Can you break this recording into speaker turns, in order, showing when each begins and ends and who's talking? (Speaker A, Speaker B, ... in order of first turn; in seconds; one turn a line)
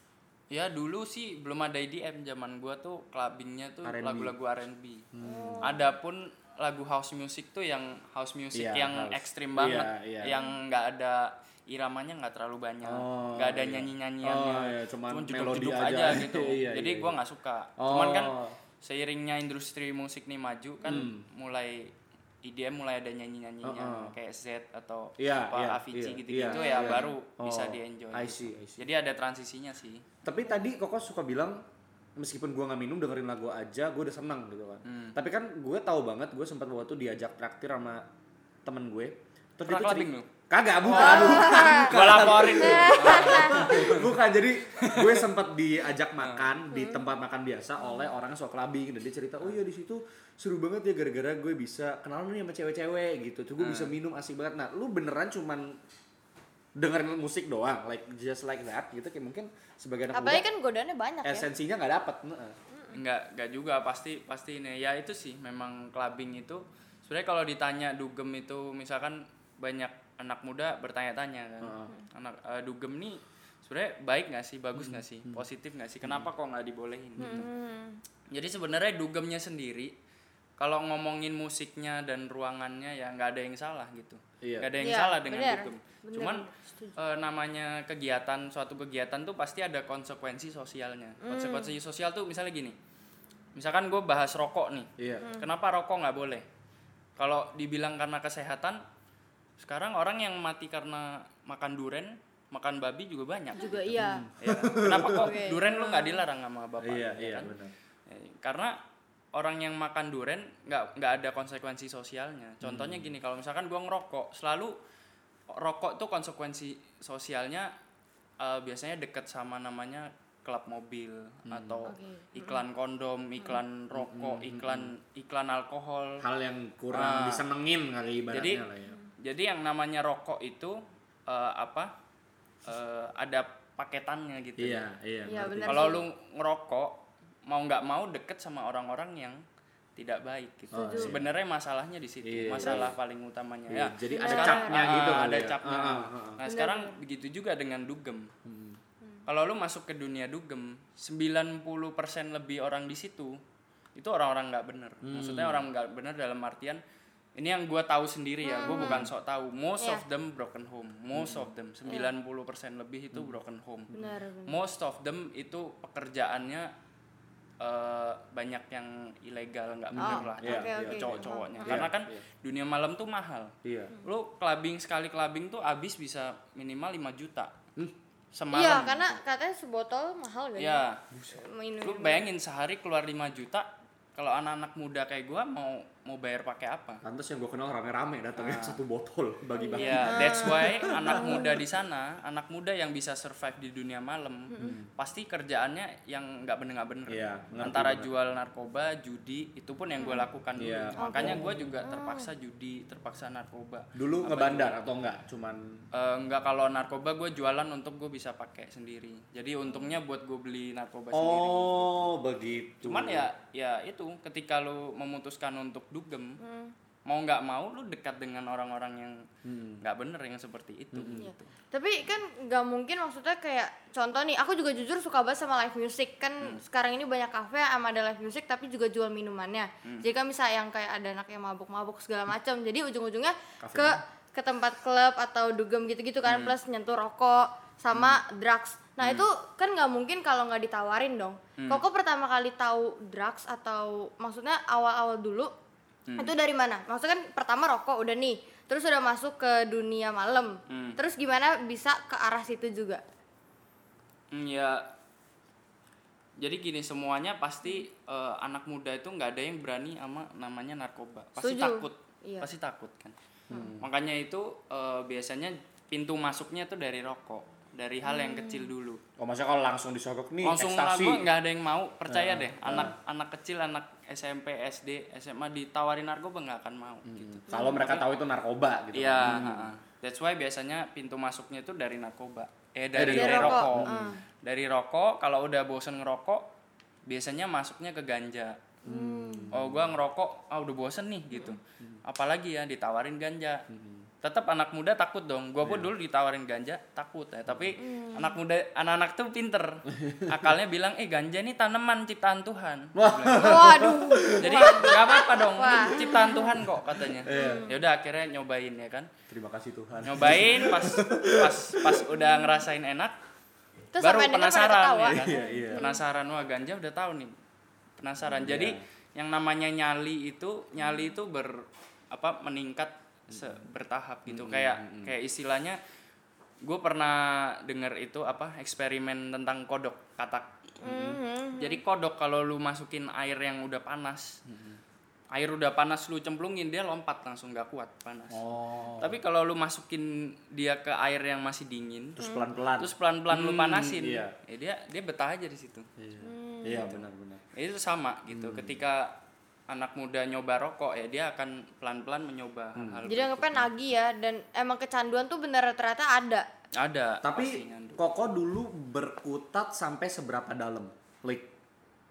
Speaker A: 0.5-5.0
Speaker B: 3.8-4.3
Speaker B: 5.1-5.7
Speaker C: 5.2-5.9
Speaker A: 5.6-30.0
Speaker B: 8.5-10.3
Speaker B: 12.8-17.1
Speaker B: 17.8-18.6
Speaker B: 20.8-21.2
Speaker B: 23.6-24.1
Speaker B: 25.2-28.8
Speaker C: 26.5-27.1
Speaker B: 30.2-31.6
Speaker B: 32.2-38.1
Speaker A: 34.9-35.1
Speaker B: 38.6-55.8
Speaker A: 39.7-40.3
Speaker A: 40.8-44.1
Speaker C: 40.9-41.9
Speaker C: 42.6-43.9
Speaker A: 44.8-45.2
Speaker A: 46.2-46.5
Speaker C: 46.7-47.0
Speaker A: 53.6-53.9
Speaker B: 56.8-60.4
Speaker C: 60.1-61.5
Speaker B: 61.2-62.5
Speaker C: 62.7-63.0
Speaker A: 62.9-77.5
Speaker B: 71.6-71.9
Speaker B: 74.8-75.4
Speaker C: 77.2-78.0
Speaker B: 77.2-77.5
Speaker A: 78.3-79.9
Speaker A: 80.6-92.7
Speaker B: 84.4-84.7
Speaker C: 84.8-87.0
Speaker C: 91.2-91.7
Speaker A: 93.5-96.4
Speaker B: 95.0-95.3
Speaker C: 95.2-95.5
Speaker A: 97.2-98.8
Speaker A: 99.6-107.5
Speaker C: 103.5-104.3
Speaker B: 103.9-105.3
Speaker C: 105.0-106.2
Speaker B: 106.8-107.7
Speaker A: 108.1-108.8
Speaker A: 109.3-114.8
Speaker B: 112.6-113.1
Speaker A: 115.5-117.7
Speaker A: 118.4-126.2
Speaker B: 121.5-121.8
Speaker C: 121.8-122.6
Speaker B: 123.9-124.9
Speaker B: 126.2-129.0
Speaker A: 126.9-127.4
Speaker A: 128.3-128.7
Speaker A: 129.2-131.9
Speaker A: 132.7-134.8
Speaker B: 134.6-135.9
Speaker C: 135.3-136.0
Speaker A: 135.7-139.4
Speaker A: 139.9-148.3
Speaker C: 140.7-141.2
Speaker B: 140.7-141.2
Speaker B: 142.2-142.9
Speaker C: 142.6-142.9
Speaker B: 143.7-146.4
Speaker C: 144.1-145.0
Speaker C: 146.4-146.9
Speaker B: 148.4-148.8
Speaker A: 149.2-153.4
Speaker A: 153.9-156.8
Speaker B: 155.0-155.6
Speaker A: 157.3-163.9
Speaker C: 158.4-159.1
Speaker B: 158.7-159.1
Speaker B: 161.1-161.5
Speaker C: 161.9-162.1
Speaker C: 163.9-164.6
Speaker A: 164.4-166.7
Speaker A: 167.6-177.5
Speaker B: 169.9-172.2
Speaker C: 170.0-171.9
Speaker B: 173.6-174.0
Speaker A: 178.3-179.2
Speaker C: 178.5-182.3
Speaker A: 180.6-181.0
Speaker B: 181.1-181.4
Speaker A: 181.8-187.0
Speaker B: 187.0-191.5
Speaker A: 188.4-188.8
Speaker C: 189.6-191.6
Speaker A: 189.8-204.8
Speaker C: 194.5-194.8
Speaker B: 194.6-194.9
Speaker B: 197.1-198.1
Speaker C: 200.0-200.3
Speaker B: 200.6-201.6
Speaker C: 201.0-202.3
Speaker B: 203.9-205.8
Speaker A: 205.9-212.1
Speaker C: 209.7-210.0
Speaker B: 211.1-213.3
Speaker A: 212.8-216.4
Speaker C: 216.4-216.7
Speaker A: 217.1-219.3
Speaker B: 219.4-219.8
Speaker A: 219.8-221.5
Speaker B: 220.9-221.3
Speaker C: 221.2-245.5
Speaker B: 233.6-234.0
Speaker A: 236.3-236.5
Speaker A: 239.0-239.3
Speaker A: 241.6-241.8
Speaker A: 246.1-246.3
Speaker C: 246.2-253.0
Speaker A: 250.7-251.0
Speaker A: 254.3-254.8
Speaker A: 256.4-263.1
Speaker C: 261.4-262.5
Speaker B: 263.5-263.9
Speaker A: 263.8-269.0
Speaker C: 268.0-268.7
Speaker B: 269.2-271.2
Speaker A: 270.4-278.0
Speaker B: 272.1-272.9
Speaker B: 277.1-279.7
Speaker C: 277.5-277.9
Speaker A: 278.9-286.4
Speaker B: 282.9-284.1
Speaker C: 283.1-284.2
Speaker A: 287.1-288.6
Speaker C: 288.8-289.5
Speaker B: 288.9-289.9
Speaker A: 289.5-293.6
Speaker C: 291.3-291.6
Speaker B: 293.7-294.1
Speaker A: 294.2-303.8
Speaker C: 297.8-298.4
Speaker B: 299.9-300.5
Speaker B: 302.9-304.9
Speaker C: 303.3-306.5
Speaker A: 304.4-309.1
Speaker B: 307.2-307.7
Speaker C: 307.3-307.8
Speaker B: 309.3-312.0
Speaker A: 310.0-313.1
Speaker C: 312.2-312.6
Speaker C: 313.9-316.0
Speaker A: 314.0-317.3
Speaker B: 315.0-315.8
Speaker A: 318.0-325.8
Speaker C: 318.2-318.5
Speaker B: 318.3-318.8
Speaker C: 320.8-321.1
Speaker B: 323.3-323.6
Speaker B: 324.3-325.1
Speaker A: 326.6-330.7
Speaker C: 330.8-331.8
Speaker B: 330.8-331.2
Speaker A: 331.6-334.4
Speaker B: 334.5-334.8
Speaker A: 335.3-338.4
Speaker B: 338.3-339.2
Speaker A: 339.0-342.2
Speaker B: 342.2-344.3
Speaker C: 342.2-342.4
Speaker A: 342.8-345.9
Speaker B: 346.0-347.4
Speaker C: 346.2-347.0
Speaker A: 347.5-349.1
Speaker B: 348.3-348.8
Speaker A: 349.7-353.7
Speaker B: 352.8-353.0
Speaker C: 353.0-356.5
Speaker A: 356.8-358.0
Speaker B: 357.2-361.5